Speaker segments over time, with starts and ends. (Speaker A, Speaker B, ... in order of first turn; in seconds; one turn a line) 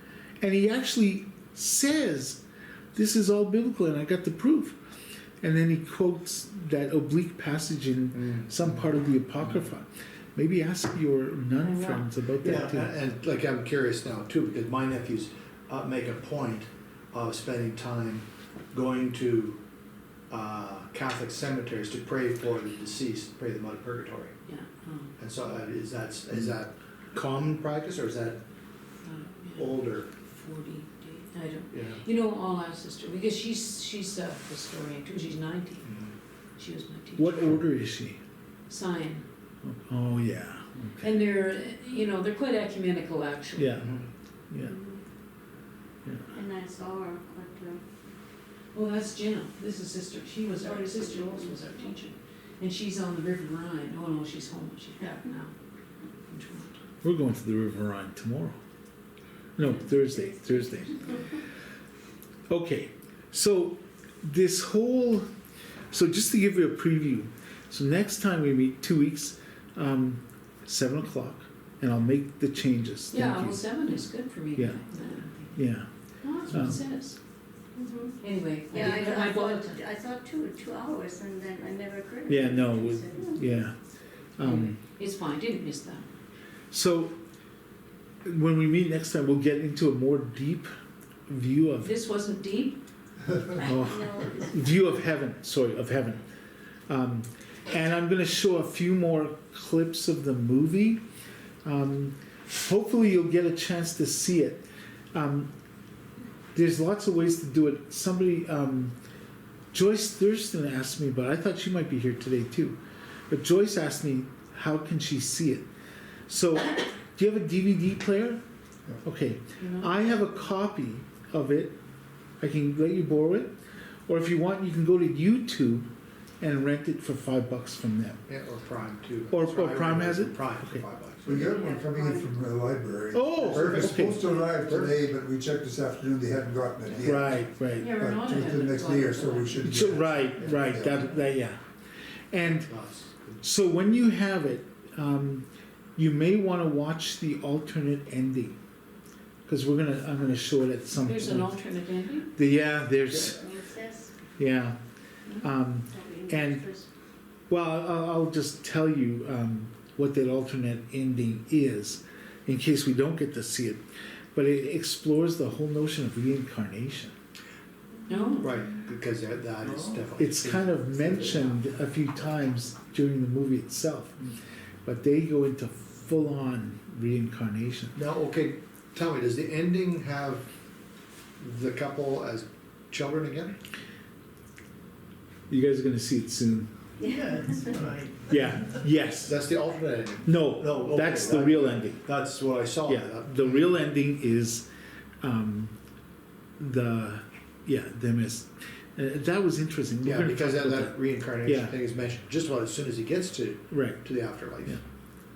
Speaker A: 0.4-2.4
Speaker A: 2.9-4.8
Speaker A: 5.4-12.9
Speaker B: 8.1-8.8
Speaker C: 11.6-12.0
Speaker B: 12.4-19.6
Speaker B: 20.3-24.3
Speaker C: 24.5-25.1
Speaker B: 25.2-28.4
Speaker C: 29.0-35.9
Speaker B: 29.6-30.1
Speaker B: 31.7-32.0
Speaker B: 35.8-36.1
Speaker C: 36.6-37.6
Speaker A: 37.1-38.2
Speaker C: 38.7-39.2
Speaker A: 39.6-41.2
Speaker C: 41.0-43.8
Speaker A: 43.5-44.0
Speaker B: 43.8-44.1
Speaker A: 44.5-44.8
Speaker D: 44.6-45.0
Speaker D: 46.3-47.8
Speaker C: 48.7-55.5
Speaker D: 50.7-51.5
Speaker C: 56.3-56.8
Speaker A: 57.0-58.6
Speaker A: 59.5-61.2
Speaker A: 62.5-65.3
Speaker A: 65.9-73.7
Speaker C: 73.1-75.5
Speaker A: 74.5-74.8
Speaker A: 75.5-75.9
Speaker C: 76.2-77.2
Speaker A: 76.5-76.8
Speaker D: 77.7-78.2
Speaker C: 78.2-79.8
Speaker D: 78.7-83.5
Speaker A: 82.3-83.8
Speaker A: 84.4-84.8
Speaker C: 84.4-86.0
Speaker A: 86.7-87.2
Speaker A: 88.2-90.7
Speaker A: 91.3-92.0
Speaker C: 91.8-92.8
Speaker D: 93.5-94.7
Speaker A: 93.5-96.2
Speaker A: 96.9-101.0
Speaker A: 101.6-105.5
Speaker A: 106.5-108.9
Speaker A: 109.7-112.8
Speaker A: 113.3-115.7
Speaker A: 116.3-118.4
Speaker A: 119.0-121.8
Speaker C: 119.6-120.0
Speaker A: 122.4-123.5
Speaker A: 124.1-125.9
Speaker A: 126.4-128.2
Speaker B: 128.3-131.4
Speaker A: 129.3-130.8
Speaker E: 131.2-141.1
Speaker D: 131.3-132.3
Speaker A: 133.1-134.2
Speaker B: 133.5-134.9
Speaker A: 137.0-137.9
Speaker C: 137.7-139.7
Speaker A: 139.6-141.6
Speaker B: 140.4-140.7
Speaker A: 142.3-142.7
Speaker B: 142.4-143.4
Speaker A: 143.4-148.6
Speaker A: 149.5-151.6
Speaker C: 150.9-152.3
Speaker A: 152.3-153.4
Speaker D: 153.3-154.1
Speaker A: 154.4-154.8
Speaker A: 155.4-156.7
Speaker D: 155.8-156.9
Speaker A: 157.5-163.8
Speaker A: 164.3-167.1
Speaker C: 168.1-168.5
Speaker B: 168.4-171.5
Speaker A: 170.2-174.2
Speaker A: 174.8-177.9
Speaker B: 177.9-180.5
Speaker B: 181.4-183.5
Speaker A: 185.5-186.7
Speaker D: 187.0-187.8
Speaker A: 188.3-189.4
Speaker B: 189.2-193.8
Speaker A: 190.2-192.1
Speaker A: 192.8-194.7
Speaker A: 195.2-195.7
Speaker A: 196.6-201.7
Speaker B: 200.0-204.8
Speaker A: 203.7-204.1